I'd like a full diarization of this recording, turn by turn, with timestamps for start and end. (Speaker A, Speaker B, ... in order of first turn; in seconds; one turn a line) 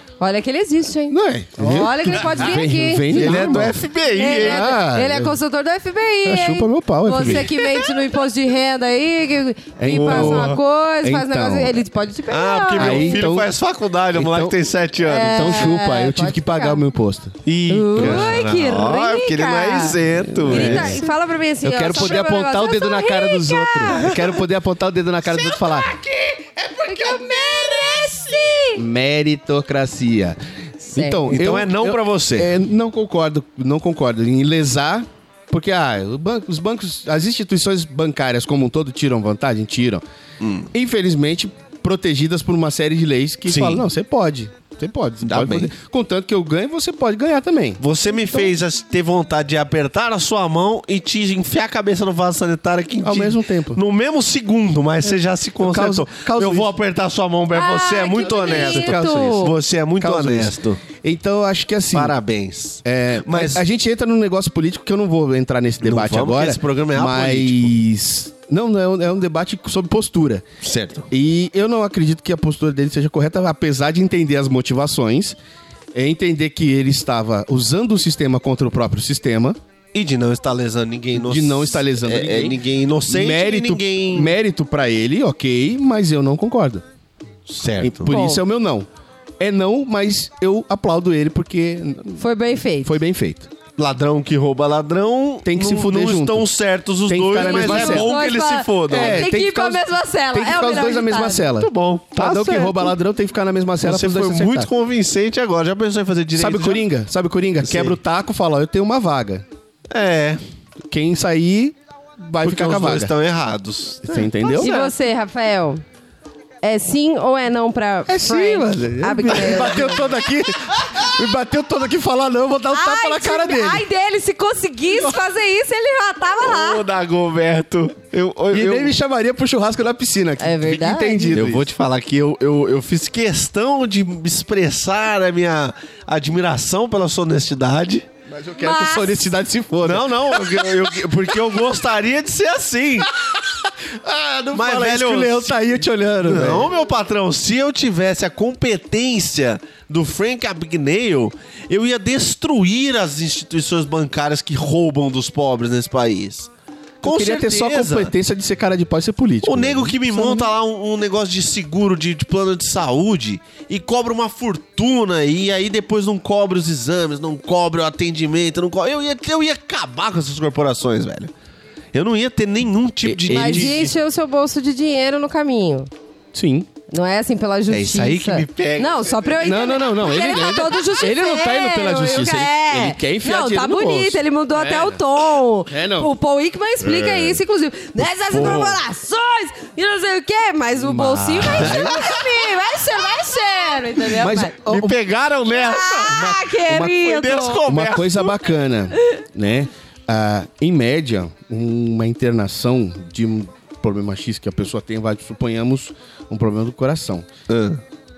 Speaker A: 0.2-3.5
Speaker B: 1.1-3.8
Speaker C: 1.4-2.6
Speaker C: 3.1-4.7
Speaker A: 4.2-13.2
Speaker B: 4.3-5.3
Speaker B: 6.2-7.5
Speaker C: 7.2-7.7
Speaker B: 9.8-11.8
Speaker C: 9.9-10.6
Speaker C: 12.3-15.7
Speaker B: 12.8-13.5
Speaker B: 14.1-14.5
Speaker A: 15.0-16.8
Speaker B: 15.2-17.4
Speaker C: 17.4-21.0
Speaker A: 17.7-24.1
Speaker B: 17.9-18.4
Speaker B: 20.2-21.1
Speaker B: 21.6-25.9
Speaker C: 23.9-24.3
Speaker C: 25.2-28.4
Speaker A: 26.9-28.8
Speaker B: 28.8-30.4
Speaker A: 30.8-31.3
Speaker B: 30.9-40.0
Speaker C: 31.3-32.5
Speaker C: 40.4-40.7
Speaker B: 40.7-48.5
Speaker C: 43.5-43.8
Speaker C: 45.2-45.7
Speaker C: 47.8-60.8
Speaker B: 53.0-53.8
Speaker B: 55.6-56.7
Speaker A: 57.5-59.5
Speaker B: 58.3-62.1
Speaker C: 61.9-63.6
Speaker B: 62.8-70.4
Speaker C: 65.8-67.7
Speaker C: 70.6-71.1
Speaker B: 71.1-75.4
Speaker B: 75.9-79.6
Speaker C: 79.9-84.3
Speaker B: 81.1-86.8
Speaker C: 87.5-88.1
Speaker B: 87.8-88.9
Speaker A: 88.0-88.4
Speaker B: 89.4-92.2
Speaker A: 92.2-93.0
Speaker B: 92.8-93.5
Speaker C: 93.8-99.3
Speaker B: 95.4-96.5
Speaker B: 97.1-98.1
Speaker A: 97.3-101.5
Speaker B: 98.9-104.7
Speaker C: 101.6-102.9
Speaker C: 103.8-106.8
Speaker B: 106.3-109.4
Speaker C: 107.6-108.0
Speaker C: 109.9-110.4
Speaker B: 110.9-113.1
Speaker C: 112.4-114.9
Speaker B: 114.0-114.7
Speaker A: 114.6-115.8
Speaker A: 116.6-120.1
Speaker B: 118.1-123.8
Speaker A: 122.7-126.8
Speaker C: 126.4-128.9
Speaker B: 128.5-131.7
Speaker A: 130.4-131.4
Speaker C: 131.3-138.1
Speaker B: 138.3-141.4
Speaker A: 138.6-139.2
Speaker C: 139.8-143.1
Speaker B: 143.0-146.7
Speaker C: 144.5-145.6
Speaker C: 146.2-156.5
Speaker C: 157.0-158.1
Speaker B: 157.0-160.5
Speaker C: 159.4-171.3
Speaker C: 171.9-173.9
Speaker B: 173.0-173.9
Speaker A: 173.3-175.9
Speaker B: 176.3-176.7
Speaker A: 176.9-194.5
Speaker C: 177.7-179.5
Speaker B: 179.4-185.0
Speaker B: 185.7-186.1
Speaker B: 186.9-187.3
Speaker B: 188.3-188.7
Speaker C: 188.3-188.8
Speaker B: 190.8-192.1
Speaker C: 191.4-192.0
Speaker B: 194.1-195.0
Speaker C: 194.6-198.4
Speaker A: 195.5-197.6
Speaker B: 196.7-196.9
Speaker B: 197.6-207.3
Speaker C: 207.5-207.8